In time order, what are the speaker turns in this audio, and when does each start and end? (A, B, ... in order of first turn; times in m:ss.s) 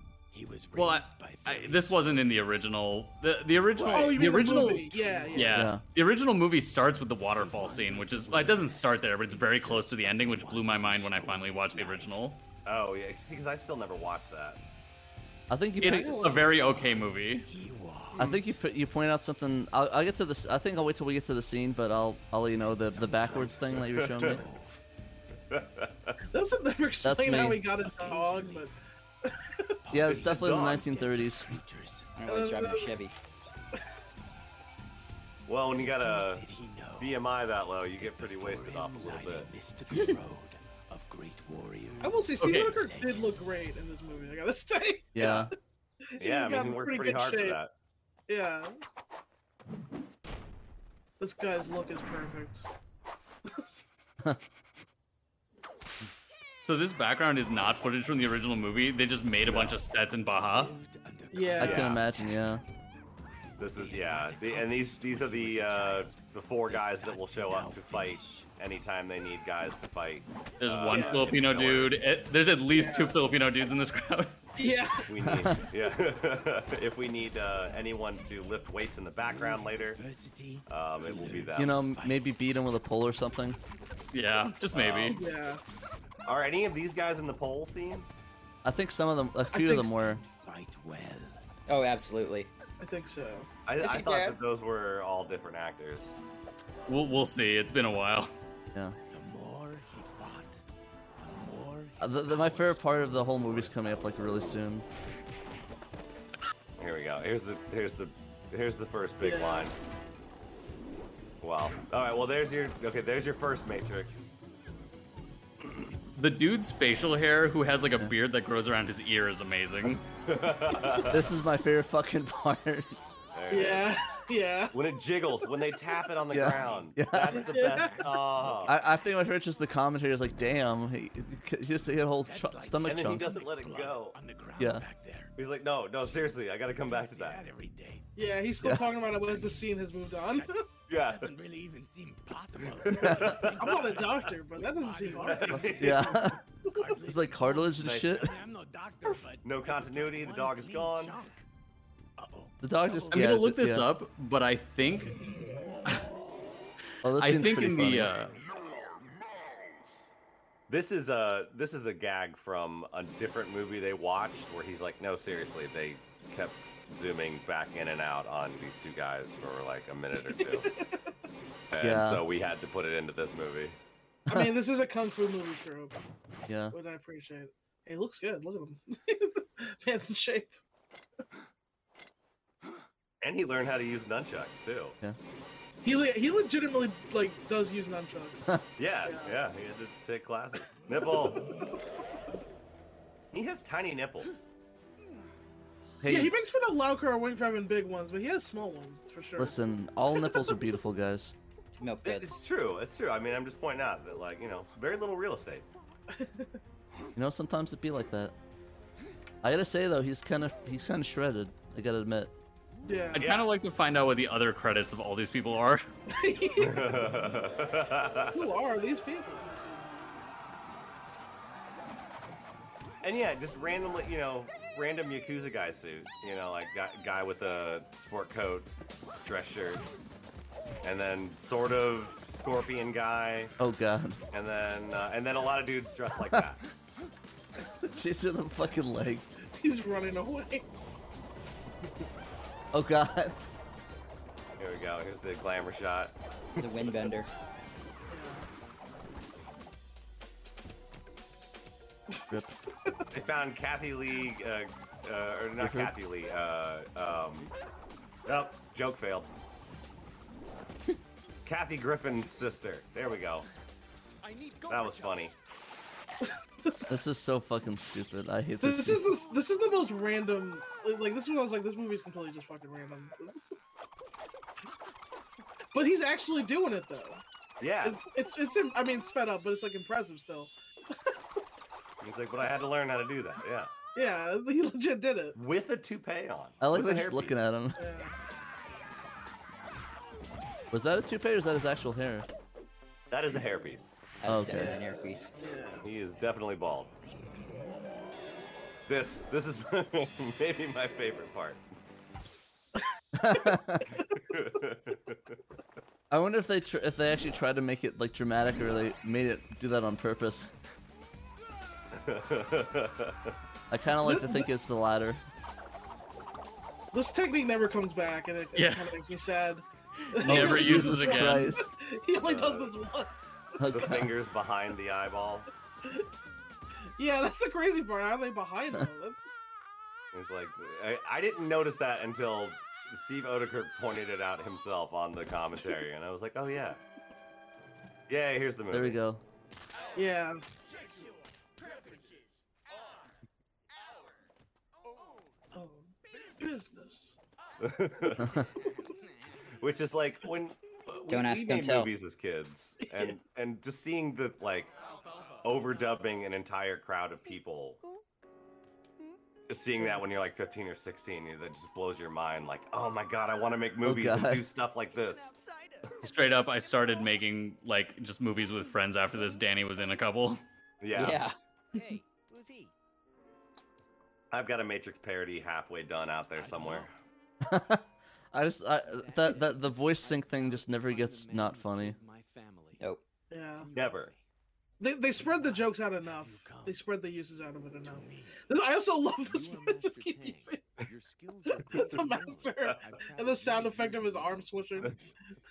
0:00.3-0:02.7 A
0:00.8-0:12.4 B
0:03.8-0:04.5 C
0:03.8-0:05.7 A
0:03.9-0:05.6 D
0:05.5-0:05.8 E
0:07.3-0:12.2 A
0:12.6-0:14.6 C
0:15.5-0:16.4 E
0:15.8-0:17.5 B
0:15.8-0:16.4 D
0:16.3-0:18.6 A
0:18.2-0:24.4 E
0:22.6-0:24.8 A
0:23.8-0:24.4 C
0:25.5-0:26.2 C
0:26.3-0:28.7 D
0:27.0-0:27.6 E
0:27.8-0:28.7 A
0:29.2-0:29.8 D
0:29.8-0:32.1 A
0:29.9-0:31.5 E
0:30.0-0:30.9 C
0:32.2-0:33.1 F
0:32.3-0:33.0 D
0:35.5-0:36.4 C
0:35.7-0:37.3 A
0:37.0-0:39.5 C
0:37.9-0:43.7 A
0:42.0-0:45.3 D
0:42.4-0:42.8 B
0:45.2-0:45.5 E
0:45.2-0:45.5 C
0:46.1-0:47.6 D
0:46.2-0:47.7 C
0:48.3-0:48.8 D
0:51.2-0:52.7 D
0:56.6-1:00.7 B
0:59.5-0:59.8 C
1:00.3-1:02.6 A
1:01.3-1:01.9 D
1:01.6-1:02.0 C
1:01.6-1:02.6 E
1:03.6-1:12.0 C
1:03.7-1:08.5 A
1:10.6-1:14.4 B
1:10.9-1:11.3 D
1:12.7-1:13.2 D
1:14.6-1:15.2 D
1:15.1-1:20.0 C
1:15.3-1:15.5 E
1:19.2-1:22.4 A
1:20.7-1:21.8 C
1:21.6-1:23.6 E
1:24.1-1:25.2 B
1:24.7-1:25.2 C
1:25.1-1:25.6 D
1:26.3-1:28.1 C
1:28.6-1:30.2 E
1:29.5-1:29.9 D
1:30.1-1:31.4 A
1:31.7-1:32.5 F
1:32.8-1:33.5 D
1:33.7-1:36.2 C
1:33.8-1:34.4 F
1:36.9-1:38.3 B
1:39.1-1:40.6 A
1:41.2-1:44.6 A
1:42.0-1:44.8 E
1:46.8-1:49.8 C
1:49.2-1:49.7 D
1:51.4-1:54.3 C
1:56.2-2:00.0 B
2:00.3-2:01.2 C
2:01.1-2:03.0 E
2:03.3-2:03.9 C
2:03.5-2:04.8 D
2:04.7-2:08.8 C
2:06.3-2:07.4 E
2:06.4-2:09.0 A
2:07.3-2:08.1 D
2:08.7-2:13.3 E
2:12.2-2:15.4 A
2:12.8-2:14.2 C
2:14.6-2:14.8 E
2:15.4-2:17.4 C
2:16.0-2:18.1 A
2:18.2-2:20.6 D
2:18.6-2:18.9 E
2:19.1-2:31.5 A
2:20.9-2:21.3 C
2:22.8-2:24.1 C
2:23.0-2:23.3 E
2:23.6-2:26.0 D
2:25.2-2:26.1 C
2:25.8-2:26.4 E
2:27.1-2:28.3 E
2:27.8-2:28.4 C
2:29.4-2:31.2 C
2:32.2-2:33.4 A
2:32.6-2:33.9 E
2:33.1-2:35.2 B
2:37.0-2:38.1 E
2:37.1-2:38.4 B
2:40.7-2:50.7 C
2:50.3-2:51.0 D
2:51.7-2:53.8 C
2:51.8-2:52.2 E
2:54.3-2:55.9 D
2:56.5-2:56.8 E
2:56.7-3:00.6 D
3:03.2-3:05.0 C
3:05.8-3:09.4 D
3:08.8-3:11.5 C
3:13.3-3:14.5 C
3:16.0-3:16.3 E
3:16.0-3:19.6 D
3:19.4-3:21.4 E
3:20.2-3:20.5 D
3:21.8-3:22.3 F
3:22.0-3:25.7 C
3:26.1-3:26.6 D
3:27.2-3:28.4 E
3:29.4-3:32.3 E
3:32.9-3:33.3 D
3:33.1-3:35.9 B
3:33.2-3:33.5 C
3:36.1-3:37.1 D
3:36.6-3:38.5 C
3:38.3-3:39.5 D
3:43.0-3:48.7 C
3:49.2-3:49.9 C
3:50.8-3:53.6 C
3:53.6-3:54.2 E
3:54.3-3:56.6 C
3:57.8-3:59.3 E
3:59.6-4:00.7 D
4:02.7-4:03.4 E
4:04.6-4:06.7 C
4:06.6-4:07.3 F
4:08.1-4:08.5 D
4:12.3-4:12.5 E
4:13.1-4:17.5 C
4:15.6-4:15.9 E
4:18.3-4:19.3 C
4:21.5-4:23.5 C
4:24.2-4:25.4 A
4:24.7-4:25.3 C
4:26.9-4:29.0 E
4:28.6-4:33.5 D
4:35.7-4:37.2 D
4:37.6-4:38.0 C
4:37.8-4:41.2 D
4:42.0-4:43.7 C
4:44.0-4:45.4 D
4:45.4-4:47.4 C
4:46.6-4:47.8 E
4:47.8-4:48.2 D
4:50.7-4:52.3 E
4:53.1-4:54.0 C
4:54.2-4:55.3 F
4:54.2-4:54.8 E
4:54.6-4:54.8 D
4:55.4-4:55.8 D
4:55.8-4:56.9 C
4:58.9-5:01.6 C
5:03.2-5:03.8 E
5:04.2-5:05.4 C
5:06.1-5:10.5 E
5:11.9-5:13.3 C
5:13.7-5:15.2 E
5:14.0-5:14.5 D
5:16.9-5:23.4 D
5:18.6-5:19.0 B
5:20.2-5:21.5 B
5:20.2-5:21.7 E
5:22.1-5:22.7 C
5:23.6-5:24.1 E
5:23.7-5:25.6 C
5:27.0-5:29.4 D
5:30.1-5:36.8 C
5:38.1-5:39.0 C
5:38.7-5:39.2 E
5:40.0-5:40.4 D
5:40.6-5:42.2 A
5:45.5-5:47.2 D
5:47.6-5:48.4 C
5:48.7-5:48.9 G
5:49.6-5:54.7 C
5:51.1-5:51.9 F
5:55.4-5:57.8 C
5:59.5-6:05.4 C
6:03.8-6:04.4 E
6:05.2-6:05.6 A
6:05.4-6:07.1 G
6:06.0-6:10.4 B
6:10.8-6:11.2 C
6:10.9-6:11.4 F
6:11.8-6:12.7 G
6:14.3-6:16.9 C
6:16.3-6:17.0 A
6:17.5-6:22.0 E
6:18.8-6:22.8 A
6:23.3-6:23.7 D
6:23.6-6:24.2 A
6:23.7-6:24.1 C
6:24.8-6:30.7 D
6:25.2-6:26.9 A
6:27.8-6:28.4 A
6:29.2-6:35.2 A
6:31.7-6:34.9 D